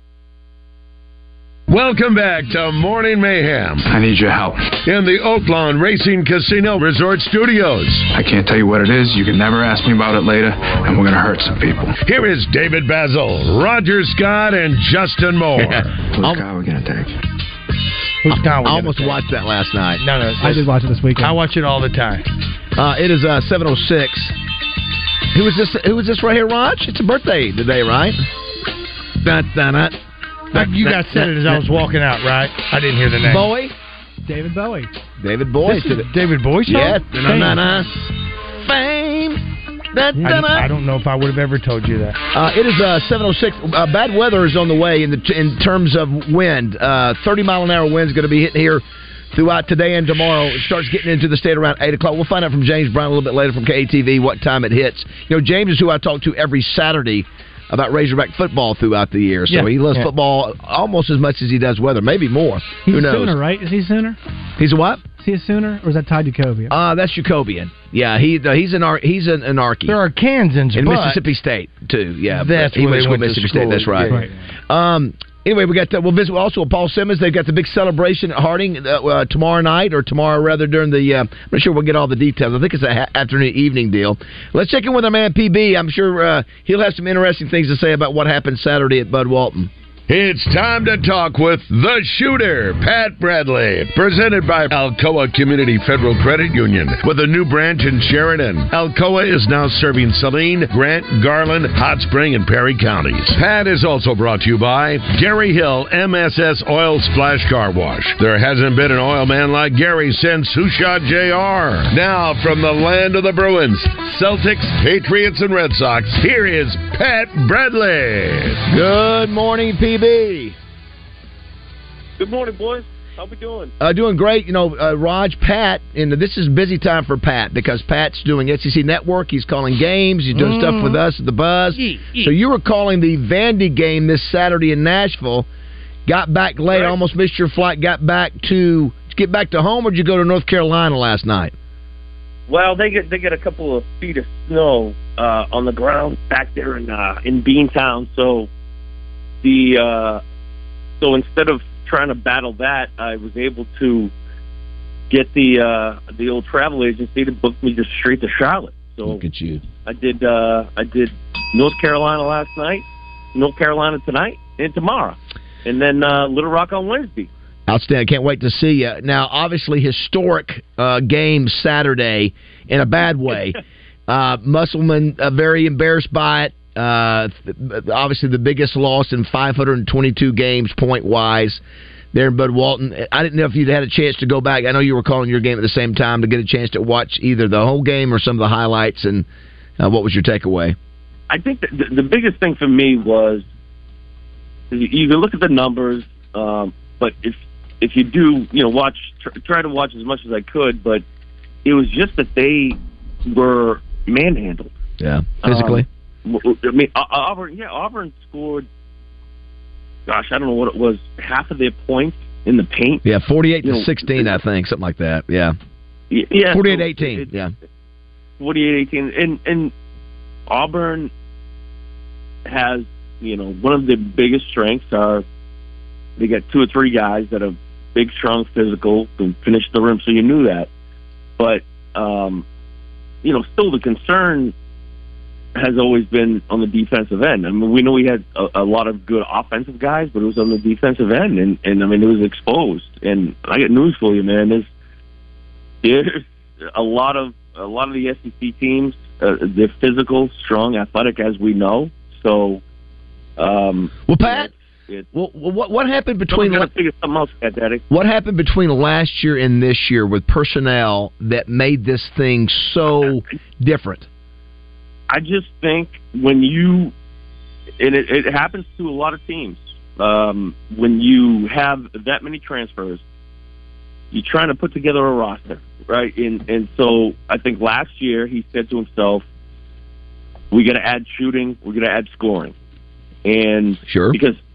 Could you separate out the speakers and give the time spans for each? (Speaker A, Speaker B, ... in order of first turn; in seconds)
Speaker A: 1.7-3.9, 4.8-8.1, 12.1-15.9, 90.1-118.6
Speaker B: 3.9-4.8, 8.1-12.0, 16.0-17.2
Speaker C: 18.2-19.2, 20.0-22.3, 30.5-33.5, 35.6-37.7, 40.2-42.2, 59.5-60.1, 69.9-71.2, 72.3-74.3, 130.3-131.0, 131.8-132.3
Speaker D: 18.3-20.0, 22.8-24.3, 25.3-28.2, 29.2-30.0, 30.5-31.6, 33.2-33.7, 35.2-36.1, 36.7-39.4, 39.9-40.7, 42.3-63.4, 64.6-65.0, 66.7-70.0, 70.8-74.1, 74.7-89.7, 118.7-120.6, 123.8-135.5, 136.1-141.5, 159.1-159.6, 167.7-181.6, 182.1-189.3, 189.8-190.8, 205.0-205.9, 213.0-215.6, 216.5-217.5, 254.1-254.5, 255.1-256.7, 257.9-264.1, 283.9-284.2
Speaker E: 20.5-21.3, 34.3-34.9, 62.9-64.2, 65.2-66.7
Speaker F: 122.2-123.7, 136.7-137.0, 142.5-148.5, 149.4-150.2, 151.0-154.1, 155.1-159.2, 159.8-167.3, 191.3-193.4, 194.7-201.0, 201.7-204.7, 205.4-208.7, 210.1-213.1, 213.6-214.3, 216.1-217.3, 218.4-219.7, 220.5-221.1, 222.4-225.2, 226.2-230.7, 231.4-232.4, 233.2-234.5, 235.6-244.7, 245.8-252.6, 253.4-255.1, 256.3-257.8, 265.1-266.9, 267.8-273.0, 274.1-279.3, 280.5-282.6, 283.2-284.4